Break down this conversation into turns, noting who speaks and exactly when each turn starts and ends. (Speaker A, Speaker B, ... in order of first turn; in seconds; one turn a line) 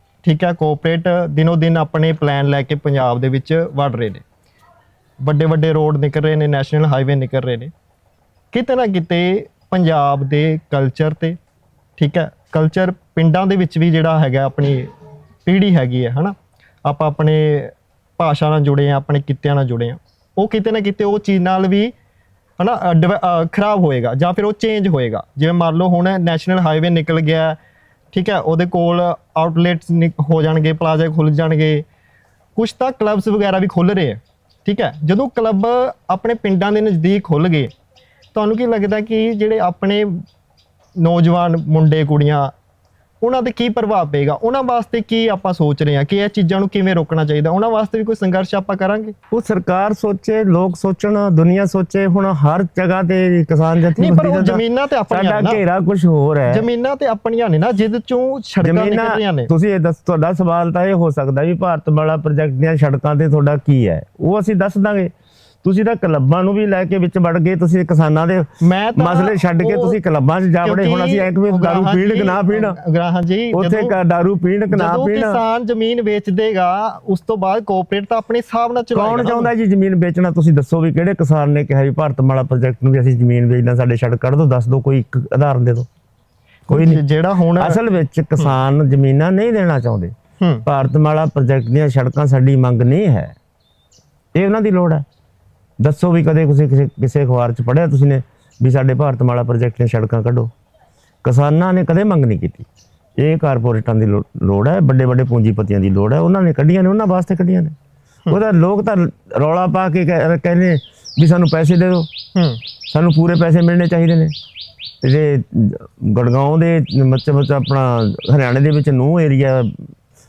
Speaker A: 0.2-4.2
Speaker A: 5.2-7.7
Speaker A: 8.5-11.4
Speaker A: 12.0-14.9
Speaker A: 15.4-21.9
Speaker A: 22.6-27.6
Speaker A: 28.1-31.8
Speaker A: 32.5-37.7
Speaker A: 38.3-40.2
Speaker A: 41.0-42.5
Speaker A: 43.2-49.1
Speaker B: 49.3-56.6
Speaker A: 54.0-55.6
Speaker A: 56.5-59.5
Speaker B: 58.6-65.1
Speaker B: 65.6-72.8
Speaker A: 68.6-70.0
Speaker A: 70.6-73.9
Speaker B: 73.5-75.4
Speaker A: 74.7-79.5
Speaker B: 78.9-85.9
Speaker A: 86.7-87.8
Speaker B: 86.7-87.0
Speaker B: 87.6-90.1
Speaker A: 90.4-90.7
Speaker B: 90.7-93.3
Speaker B: 94.3-95.0
Speaker B: 95.8-100.5
Speaker B: 101.2-102.7
Speaker B: 103.2-107.7
Speaker B: 108.3-112.1
Speaker A: 112.3-112.6
Speaker B: 112.9-114.3
Speaker B: 115.0-119.9